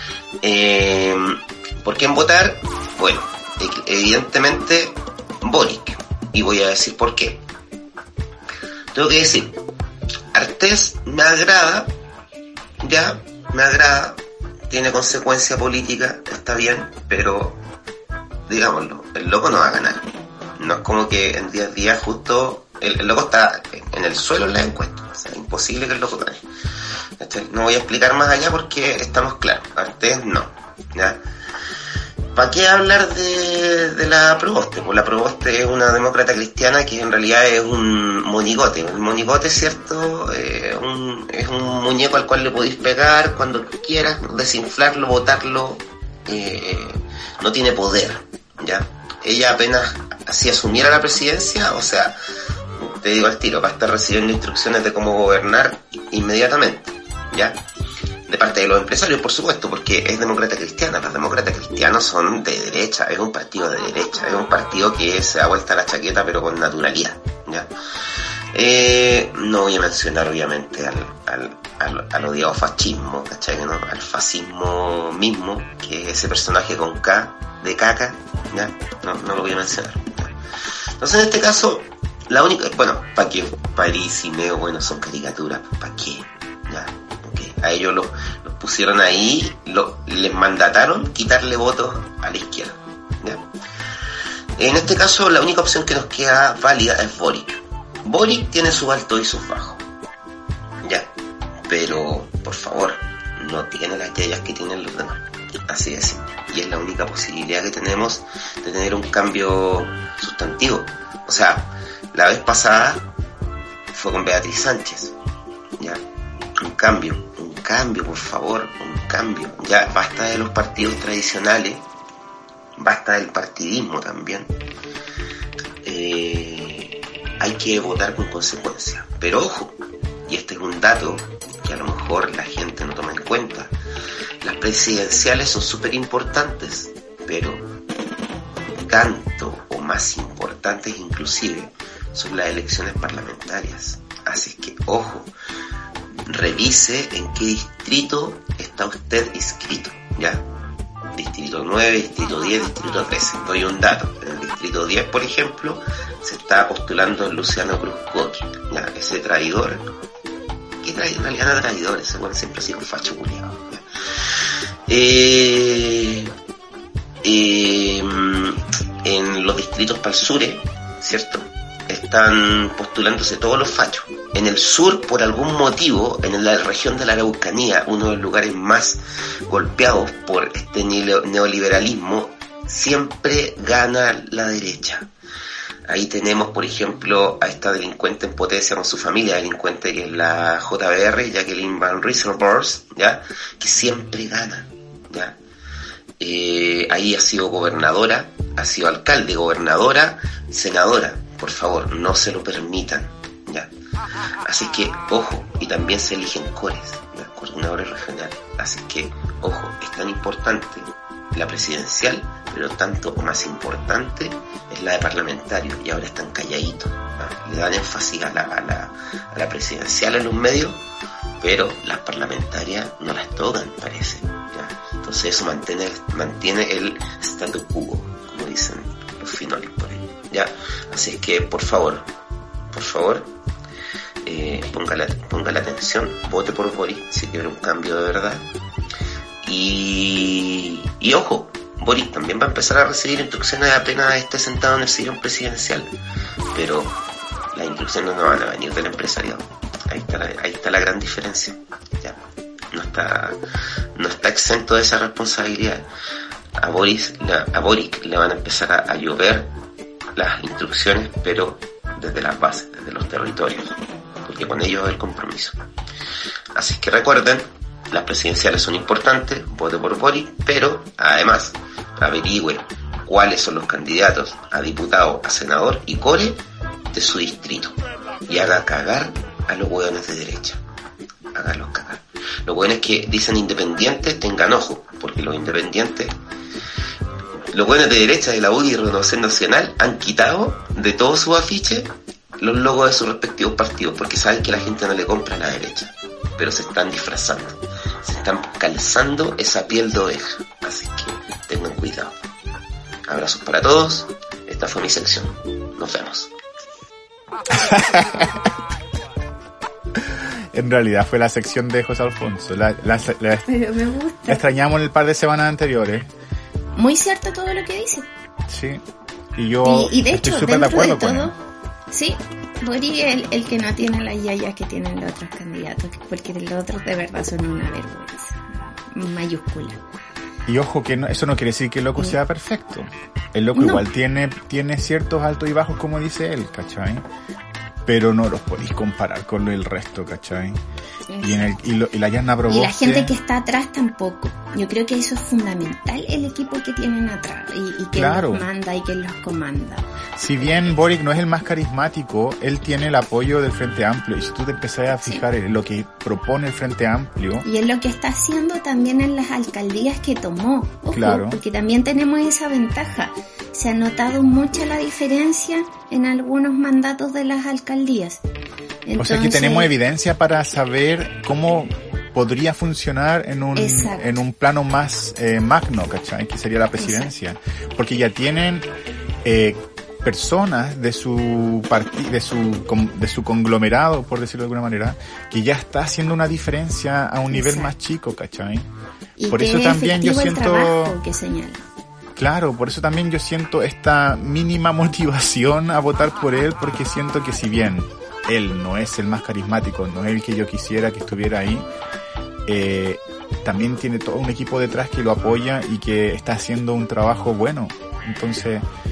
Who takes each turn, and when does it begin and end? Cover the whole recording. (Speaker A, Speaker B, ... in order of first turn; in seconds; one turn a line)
Speaker A: 0.4-7.4
Speaker A: 8.9-9.6
Speaker A: 10.3-11.9
Speaker A: 12.8-17.6
Speaker A: 18.5-20.0
Speaker A: 20.6-26.4
Speaker A: 27.2-31.2
Speaker A: 32.3-52.1
Speaker A: 52.8-57.6
Speaker A: 58.3-67.7
Speaker A: 68.5-80.3
Speaker A: 81.0-93.5
Speaker A: 94.6-99.8
Speaker A: 101.7-113.1
Speaker A: 113.9-115.1
Speaker A: 116.6-121.8
Speaker A: 122.8-124.5
Speaker A: 125.8-133.7
Speaker A: 134.4-137.7
Speaker A: 138.8-145.3
Speaker A: 146.3-150.4
Speaker A: 151.1-159.8
Speaker A: 160.8-163.8
Speaker A: 164.9-166.3
Speaker A: 167.2-185.1
Speaker A: 185.9-195.4
Speaker A: 196.2-203.7
Speaker A: 204.4-220.8
Speaker A: 221.4-232.1
Speaker A: 232.7-233.3
Speaker A: 234.2-238.5
Speaker A: 239.4-245.9
Speaker A: 246.5-246.9
Speaker A: 247.5-252.2
Speaker A: 252.7-253.4
Speaker A: 253.9-255.9
Speaker A: 256.6-259.5
Speaker A: 260.1-265.6
Speaker A: 266.5-276.4
Speaker A: 276.9-277.8
Speaker A: 278.3-280.6
Speaker A: 281.3-286.1
Speaker A: 287.5-302.1
Speaker A: 303.1-306.3
Speaker B: 307.5-308.5
Speaker B: 310.0-313.5
Speaker C: 313.4-314.4
Speaker B: 314.3-316.1
Speaker C: 316.7-318.1
Speaker B: 318.5-318.8
Speaker B: 319.4-321.3
Speaker C: 319.6-321.3
Speaker C: 321.9-329.8
Speaker B: 330.4-337.0
Speaker C: 333.6-333.8
Speaker B: 337.8-340.6
Speaker C: 341.1-341.4
Speaker B: 341.2-343.1
Speaker C: 342.5-349.8
Speaker B: 347.9-348.5
Speaker B: 350.2-357.4
Speaker C: 350.4-350.8
Speaker C: 357.4-368.2
Speaker B: 360.9-361.4
Speaker C: 368.9-369.7
Speaker B: 369.0-378.7
Speaker C: 373.6-374.2
Speaker C: 376.8-377.1
Speaker B: 379.2-388.7
Speaker C: 387.3-387.7
Speaker C: 389.2-391.6
Speaker B: 389.3-391.0
Speaker B: 392.1-401.7
Speaker B: 402.4-408.6